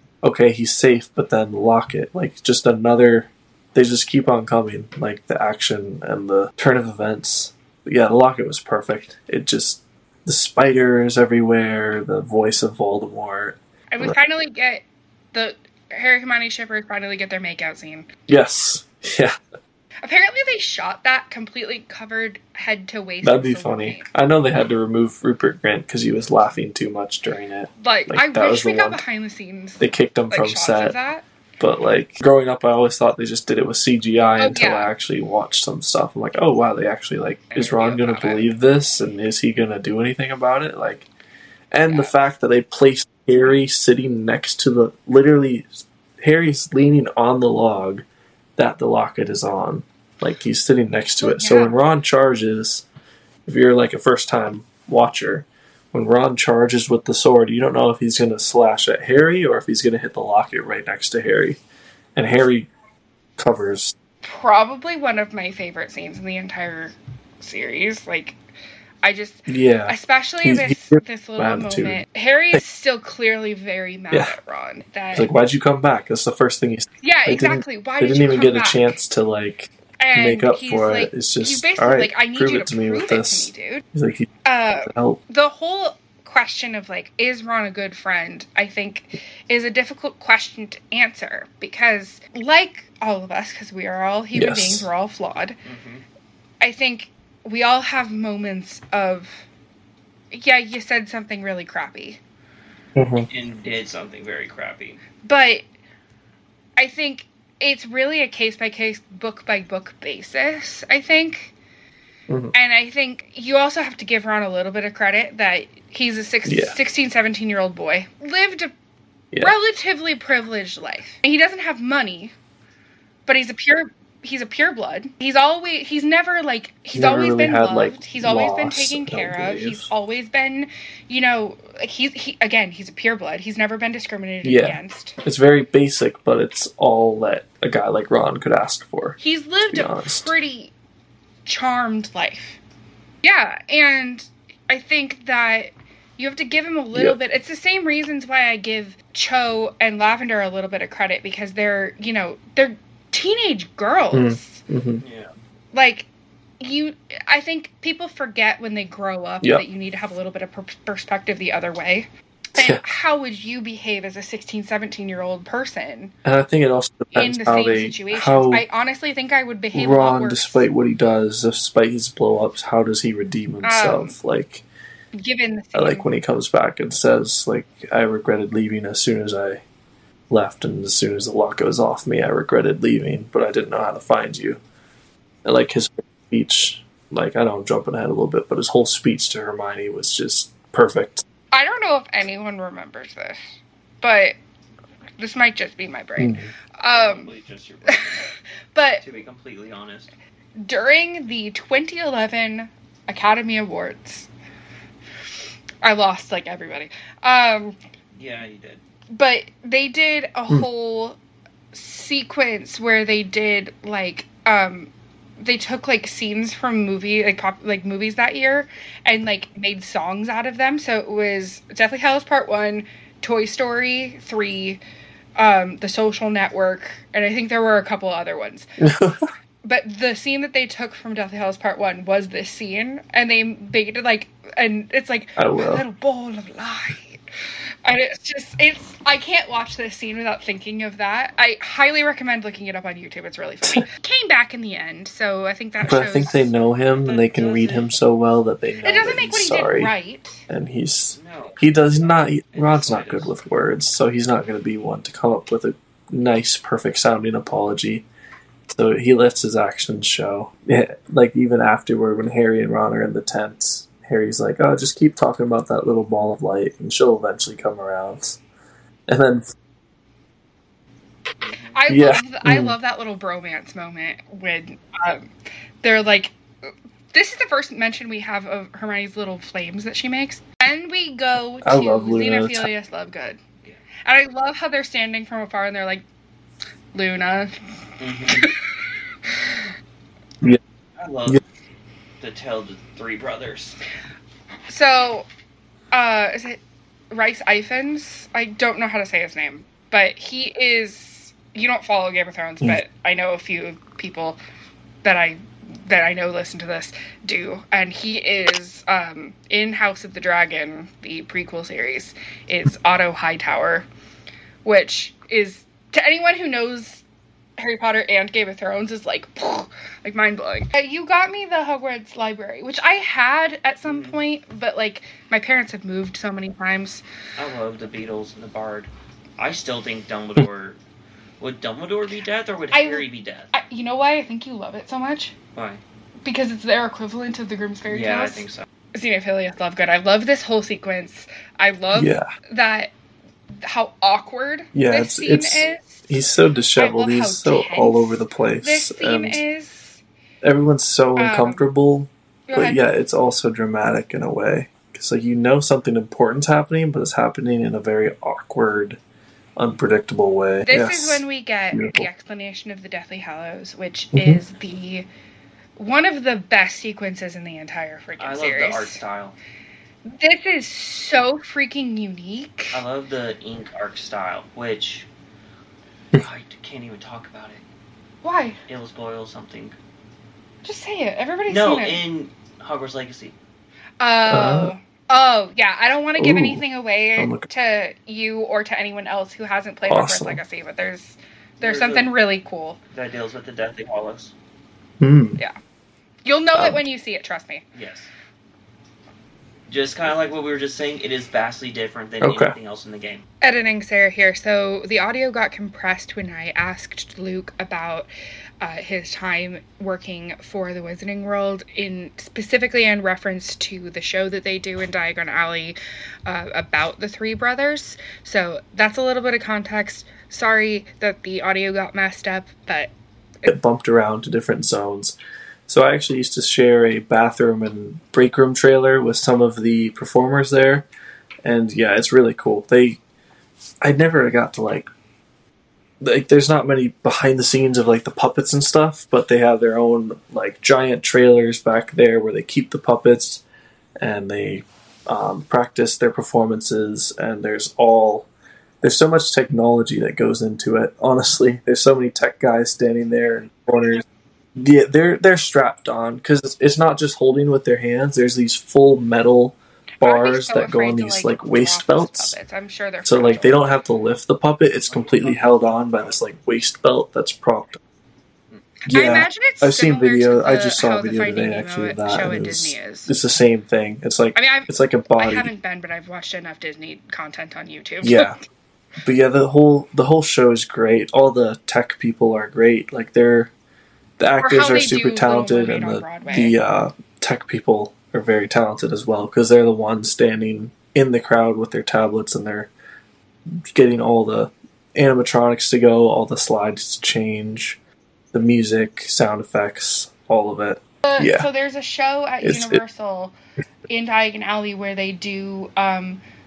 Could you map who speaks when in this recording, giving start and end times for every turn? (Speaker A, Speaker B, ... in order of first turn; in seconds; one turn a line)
Speaker A: 0.2-14.2
Speaker B: 13.9-18.1
Speaker A: 18.3-19.4
Speaker B: 20.0-24.1
Speaker A: 23.2-29.0
Speaker B: 27.8-31.2
Speaker A: 29.8-31.0
Speaker A: 31.6-41.1
Speaker B: 34.4-34.9
Speaker B: 37.5-38.5
Speaker A: 41.7-45.7
Speaker B: 41.9-42.1
Speaker A: 46.2-48.0
Speaker A: 48.6-52.9
Speaker B: 51.2-51.8
Speaker A: 53.5-61.6
Speaker A: 62.2-62.7
Speaker A: 63.4-64.0
Speaker B: 64.2-68.4
Speaker B: 69.0-75.3
Speaker A: 69.5-72.6
Speaker A: 75.1-84.3
Speaker B: 77.0-78.9
Speaker B: 80.0-83.8
Speaker B: 84.4-95.6
Speaker A: 84.8-85.2
Speaker A: 94.3-94.9
Speaker C: 95.7-96.0
Speaker B: 96.6-99.5
Speaker B: 100.3-102.2
Speaker A: 103.0-103.3
Speaker C: 103.3-105.0
Speaker B: 105.2-105.7
Speaker B: 106.8-111.5
Speaker A: 112.3-112.5
Speaker B: 112.5-118.7
Speaker A: 116.5-116.8
Speaker B: 119.4-122.3
Speaker B: 123.3-135.2
Speaker A: 126.9-129.9
Speaker A: 134.4-140.3
Speaker B: 139.2-140.7
Speaker B: 141.5-142.6
Speaker B: 143.2-154.6
Speaker A: 154.1-155.0
Speaker C: 155.0-155.3
Speaker B: 155.7-156.1
Speaker B: 156.6-166.1
Speaker A: 162.6-162.8
Speaker A: 166.2-168.6
Speaker B: 167.1-170.7
Speaker A: 169.7-174.6
Speaker B: 173.6-174.2
Speaker B: 175.2-176.1
Speaker A: 175.8-179.6
Speaker A: 180.3-184.6
Speaker A: 185.4-191.2
Speaker B: 191.5-193.5
Speaker B: 194.0-194.4
Speaker B: 195.2-197.3
Speaker A: 196.2-196.5
Speaker C: 196.9-198.3
Speaker B: 197.9-199.0
Speaker C: 199.0-200.1
Speaker B: 200.6-204.3
Speaker B: 205.8-207.8
Speaker C: 208.1-208.8
Speaker B: 209.1-211.2
Speaker B: 211.7-224.8
Speaker B: 225.4-228.7
Speaker A: 228.8-229.2
Speaker B: 229.6-237.2
Speaker A: 235.4-235.8
Speaker B: 237.8-246.5
Speaker A: 245.8-249.9
Speaker C: 247.0-247.9
Speaker B: 248.8-250.4
Speaker A: 250.5-258.1
Speaker C: 251.1-251.7
Speaker C: 252.5-253.3
Speaker A: 258.7-268.4
Speaker A: 269.1-269.5
Speaker C: 271.4-271.8
Speaker B: 271.7-275.3
Speaker A: 271.9-272.8
Speaker B: 275.8-283.4
Speaker A: 281.6-282.7
Speaker B: 284.1-286.1
Speaker B: 286.9-287.6
Speaker C: 288.0-288.5
Speaker B: 289.3-289.6
Speaker C: 291.0-291.4
Speaker C: 292.2-293.8
Speaker B: 294.7-295.3
Speaker B: 295.9-304.4
Speaker B: 305.0-313.9
Speaker B: 314.6-317.0
Speaker B: 317.6-327.0
Speaker C: 323.9-324.2
Speaker C: 327.4-330.8
Speaker C: 331.4-333.5
Speaker B: 332.7-335.3
Speaker C: 335.6-335.8
Speaker B: 336.2-338.4
Speaker C: 337.9-338.7
Speaker B: 338.9-342.9
Speaker A: 341.9-342.3
Speaker B: 343.6-346.1
Speaker A: 344.7-349.4
Speaker B: 346.8-350.0
Speaker A: 350.4-359.0
Speaker B: 351.2-351.6
Speaker B: 352.5-352.8
Speaker A: 359.6-362.1
Speaker B: 360.7-365.1
Speaker A: 364.1-364.4
Speaker B: 365.8-369.0
Speaker C: 368.2-369.4
Speaker B: 370.1-372.8
Speaker C: 372.7-375.1
Speaker C: 376.1-377.6
Speaker B: 378.2-378.6
Speaker C: 378.7-379.8
Speaker B: 380.6-382.0
Speaker C: 381.5-383.4
Speaker B: 384.0-392.8
Speaker A: 384.3-384.7
Speaker A: 386.2-386.6
Speaker A: 387.2-387.5
Speaker A: 389.9-390.4
Speaker C: 391.6-392.1
Speaker C: 392.9-394.3
Speaker A: 395.0-395.4
Speaker B: 396.2-397.6
Speaker C: 397.7-398.1
Speaker C: 399.7-403.2
Speaker A: 402.2-402.6
Speaker B: 403.4-408.1
Speaker B: 408.6-422.9
Speaker A: 423.5-425.2
Speaker A: 425.7-430.9
Speaker A: 431.4-433.0
Speaker A: 433.8-434.9
Speaker A: 436.0-443.4
Speaker A: 444.0-448.3
Speaker A: 448.8-454.0
Speaker A: 454.6-462.4
Speaker B: 460.0-463.6
Speaker A: 463.1-467.8
Speaker C: 464.9-465.9
Speaker B: 468.9-473.1
Speaker A: 468.9-475.5
Speaker B: 474.4-478.4
Speaker A: 478.0-478.4
Speaker A: 479.0-483.5
Speaker A: 484.2-492.7
Speaker B: 484.4-486.6
Speaker A: 493.7-497.8
Speaker A: 498.3-501.5
Speaker B: 501.0-503.3
Speaker A: 502.4-502.8
Speaker B: 503.9-506.2